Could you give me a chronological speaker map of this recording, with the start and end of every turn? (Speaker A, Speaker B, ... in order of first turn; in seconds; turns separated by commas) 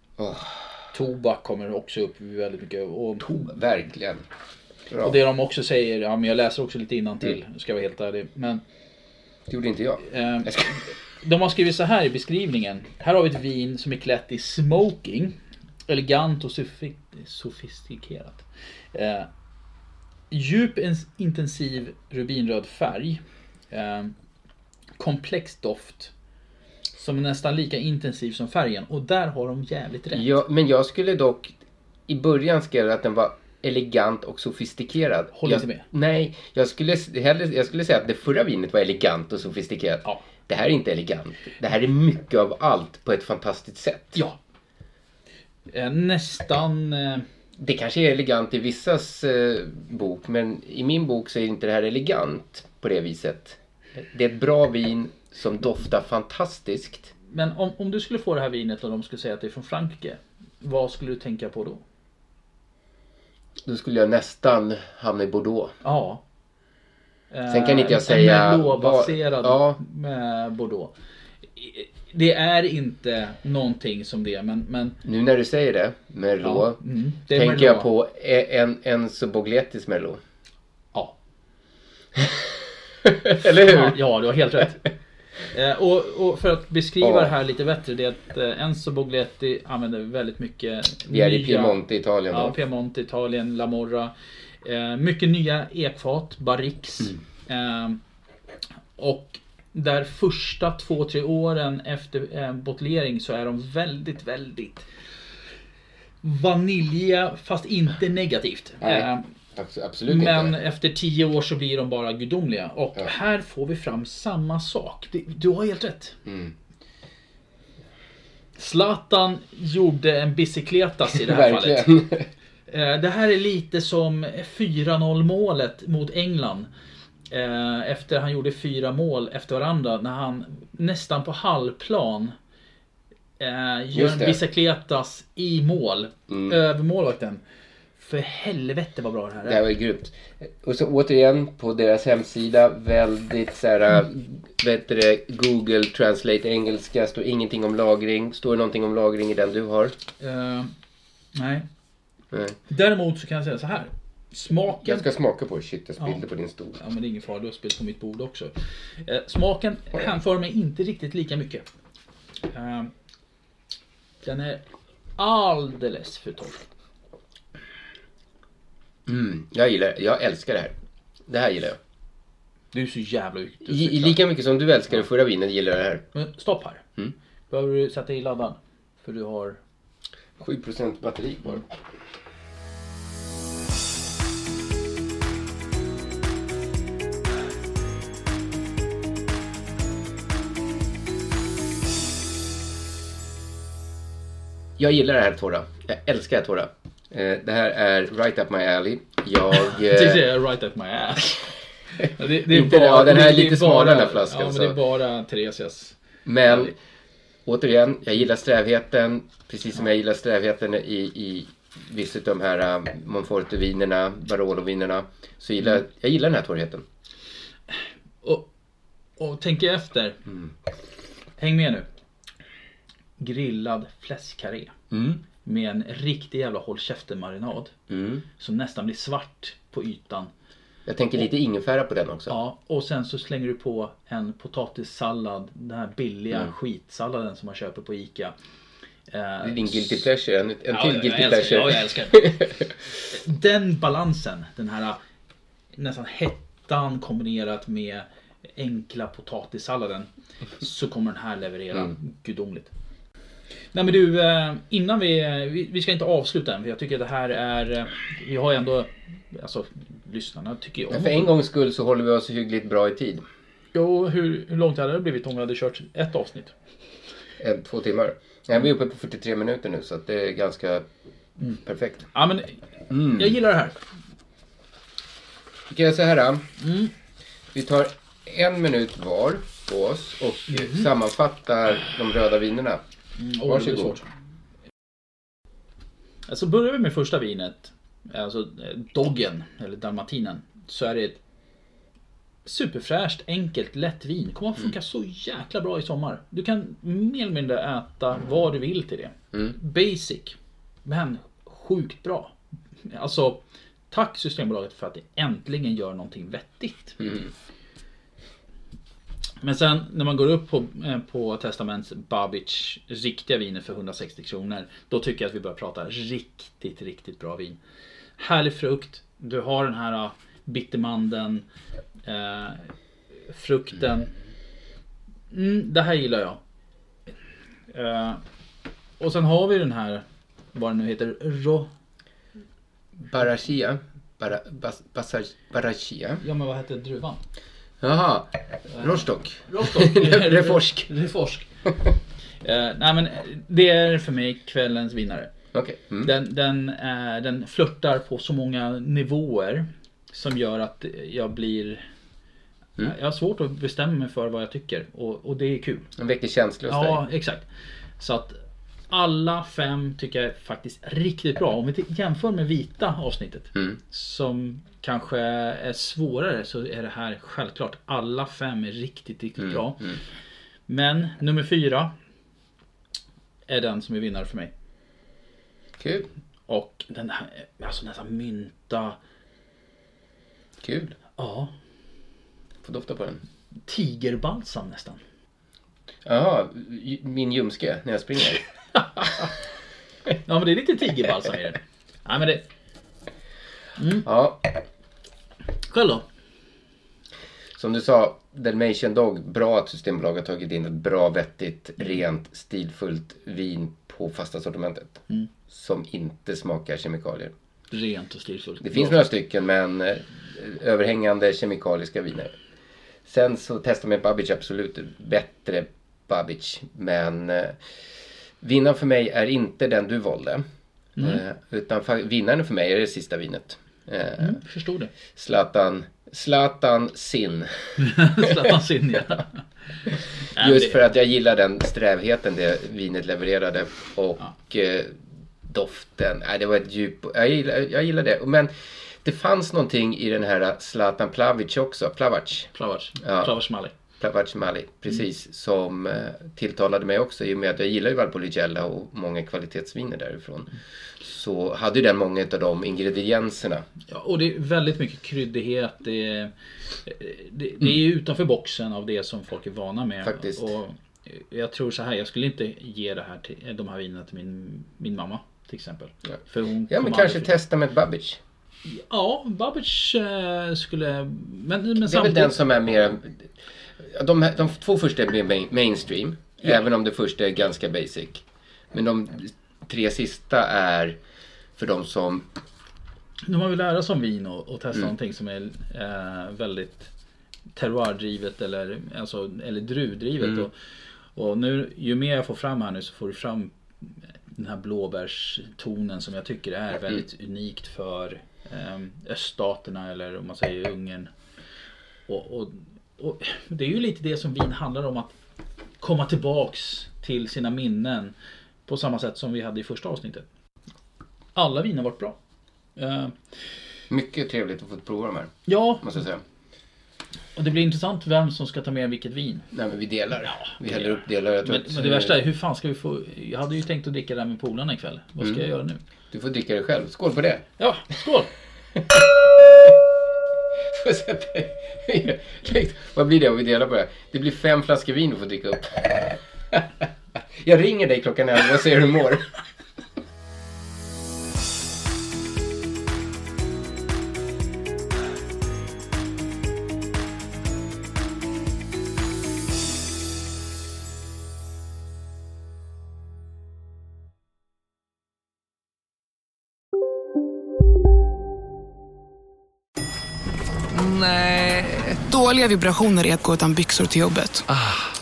Speaker A: 0.2-0.8, Speaker B: 0.9-3.5, Speaker A: 3.2-4.2, Speaker A: 4.9-5.2, Speaker B: 5.0-8.6, Speaker A: 9.5-10.8, Speaker B: 10.1-15.4, Speaker B: 15.9-19.3, Speaker B: 20.3-24.1, Speaker B: 25.0-26.1, Speaker B: 26.9-30.4, Speaker A: 30.1-31.6, Speaker A: 32.1-44.2, Speaker B: 35.4-35.9, Speaker B: 45.7-47.3, Speaker A: 47.6-57.1, Speaker B: 57.3-61.8, Speaker A: 63.6-65.7, Speaker B: 65.8-66.2, Speaker B: 67.3-70.9, Speaker A: 67.5-69.8, Speaker B: 71.5-75.0, Speaker A: 75.0-80.2, Speaker B: 76.4-77.9, Speaker A: 82.2-82.5, Speaker A: 83.0-84.0, Speaker B: 83.4-84.8, Speaker B: 85.5-91.8, Speaker A: 87.0-87.3, Speaker A: 91.1-92.6, Speaker B: 92.3-98.0, Speaker B: 99.0-104.9, Speaker B: 106.2-109.2, Speaker A: 108.8-110.5, Speaker B: 110.1-116.2, Speaker A: 116.3-116.5, Speaker B: 118.6-121.9, Speaker A: 121.1-122.3, Speaker B: 122.7-126.7, Speaker B: 127.3-132.4, Speaker B: 133.4-137.4, Speaker A: 133.9-134.4, Speaker A: 136.3-136.6, Speaker B: 138.0-139.6, Speaker A: 139.4-149.9, Speaker B: 150.2-150.7, Speaker B: 151.3-151.7, Speaker A: 152.3-152.6, Speaker B: 152.7-155.1, Speaker A: 154.8-156.8, Speaker B: 156.8-158.5, Speaker B: 159.0-161.6, Speaker B: 162.5-162.9, Speaker B: 164.2-164.6, Speaker B: 165.2-166.6, Speaker A: 169.1-170.8, Speaker A: 171.3-171.8, Speaker B: 172.7-174.2, Speaker A: 173.6-176.1, Speaker B: 176.1-176.8, Speaker B: 177.5-179.6, Speaker A: 180.4-181.7, Speaker A: 194.8-200.3, Speaker B: 199.6-206.7, Speaker A: 202.4-204.8, Speaker A: 206.2-206.7, Speaker A: 207.4-216.8, Speaker B: 219.2-220.2, Speaker B: 221.4-221.9, Speaker B: 223.2-224.7, Speaker A: 224.9-225.2, Speaker B: 225.4-227.7, Speaker A: 227.9-228.2, Speaker B: 228.4-230.3, Speaker A: 230.9-232.4, Speaker B: 232.3-238.3, Speaker B: 239.1-240.1, Speaker A: 239.4-242.7, Speaker B: 240.7-242.3, Speaker B: 243.1-245.0, Speaker B: 245.8-250.1, Speaker B: 250.6-252.7, Speaker B: 253.7-261.3, Speaker A: 260.9-263.2, Speaker B: 263.7-266.6, Speaker A: 267.4-270.9, Speaker A: 271.5-272.1, Speaker B: 272.1-273.8, Speaker A: 272.9-273.3, Speaker A: 275.7-276.4, Speaker B: 276.6-276.9, Speaker A: 277.5-282.8, Speaker B: 280.5-280.9, Speaker B: 283.2-284.1, Speaker A: 283.4-284.0, Speaker B: 286.3-291.2, Speaker B: 292.4-302.4, Speaker B: 302.9-307.0, Speaker A: 307.0-307.3, Speaker B: 309.4-317.6, Speaker B: 318.2-321.4, Speaker B: 322.1-322.7, Speaker B: 323.3-324.1, Speaker B: 325.3-326.4, Speaker B: 327.7-328.2, Speaker B: 329.0-331.7, Speaker A: 333.0-336.2, Speaker B: 336.2-337.2, Speaker A: 337.8-340.9, Speaker B: 338.8-341.5, Speaker B: 342.4-345.3, Speaker A: 345.5-346.1, Speaker B: 346.0-351.9, Speaker B: 352.8-355.9, Speaker A: 356.0-357.0, Speaker B: 356.7-357.4, Speaker B: 358.0-358.4, Speaker B: 358.9-369.9, Speaker A: 369.4-370.0, Speaker B: 370.7-371.9, Speaker B: 373.5-374.5, Speaker A: 375.8-376.1, Speaker B: 376.5-379.0, Speaker A: 380.6-380.9, Speaker B: 381.2-381.5, Speaker A: 382.6-383.2, Speaker B: 383.7-385.0, Speaker A: 386.1-388.4, Speaker B: 388.8-389.3, Speaker B: 390.3-392.4, Speaker B: 393.8-394.1, Speaker A: 394.0-394.6, Speaker B: 395.7-396.1, Speaker A: 397.6-407.3, Speaker B: 407.7-409.0, Speaker A: 408.6-412.3, Speaker A: 413.1-417.6, Speaker A: 418.4-420.4, Speaker B: 421.0-421.2, Speaker A: 421.0-424.4, Speaker B: 424.2-424.9, Speaker A: 425.1-428.6, Speaker B: 427.8-429.4, Speaker B: 430.4-430.8, Speaker A: 430.4-442.5, Speaker B: 442.5-443.7, Speaker A: 443.0-443.4, Speaker A: 444.0-450.5, Speaker A: 451.0-453.7, Speaker B: 453.9-456.3, Speaker B: 456.9-467.4, Speaker A: 460.0-460.5, Speaker A: 466.7-468.2, Speaker B: 468.6-472.4, Speaker A: 471.8-473.3, Speaker A: 473.8-481.0, Speaker A: 481.6-482.3, Speaker B: 483.3-486.9, Speaker B: 487.6-490.5, Speaker B: 491.1-493.5, Speaker B: 494.3-501.1, Speaker B: 502.1-505.1, Speaker B: 505.8-508.1, Speaker B: 508.7-510.3, Speaker B: 511.4-512.2, Speaker B: 512.8-513.2, Speaker A: 513.9-516.2, Speaker B: 515.5-516.0, Speaker B: 517.4-519.5, Speaker A: 519.5-522.2, Speaker B: 520.2-525.8, Speaker A: 525.2-525.5, Speaker A: 526.1-527.4, Speaker B: 527.6-528.3, Speaker A: 529.4-529.7, Speaker A: 530.7-539.3, Speaker C: 560.7-564.5